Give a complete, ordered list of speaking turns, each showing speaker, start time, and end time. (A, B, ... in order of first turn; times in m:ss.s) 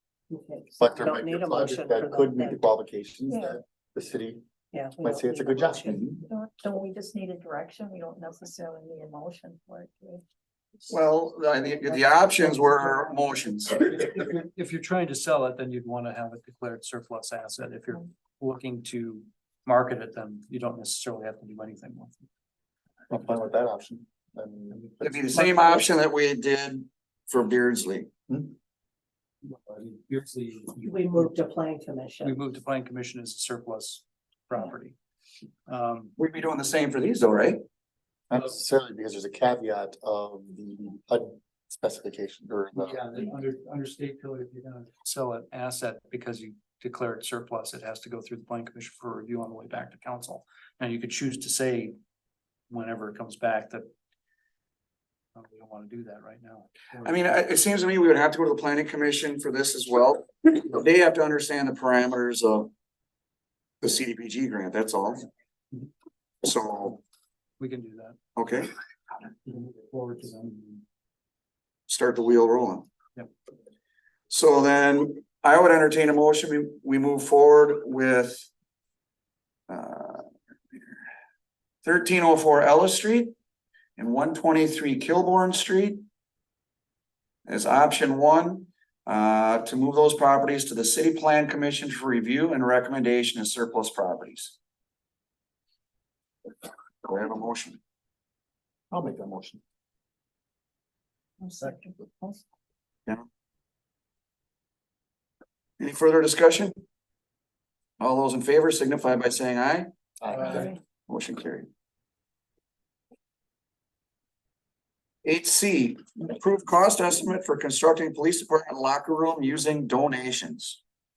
0:00.3-0:02.6 A
0:00.8-0:04.4 B
0:04.7-0:06.2 A
0:05.0-0:06.2 B
0:06.2-0:10.2 C
0:10.9-0:13.9 D
0:13.9-0:22.3 E
0:23.1-0:25.8 B
0:24.7-0:25.5 E
0:25.0-0:28.1 D
0:28.3-0:28.5 B
0:29.4-0:31.4 E
0:30.8-0:32.3 A
0:32.2-0:35.0 E
0:35.7-0:36.2 E
0:36.2-0:37.6 D
0:38.3-0:43.0 B
0:42.8-0:52.0 E
0:52.7-0:53.9 E
0:55.4-0:57.4 E
0:57.0-1:02.7 D
1:03.8-1:05.3 D
1:06.4-1:07.0 D
1:07.6-1:08.2 E
1:08.4-1:08.7 D
1:09.5-1:10.8 E
1:11.9-1:12.9 D
1:14.3-1:18.5 D
1:19.7-1:20.3 D
1:21.8-1:23.3 D
1:24.0-1:26.0 D
1:27.5-1:34.6 D
1:37.0-1:37.8 D
1:38.9-1:39.6 B
1:41.4-1:42.4 C
1:45.8-1:46.7 D
1:48.0-1:49.9 D
1:50.2-1:50.6 B
1:50.4-1:51.7 D
1:55.2-2:00.8 D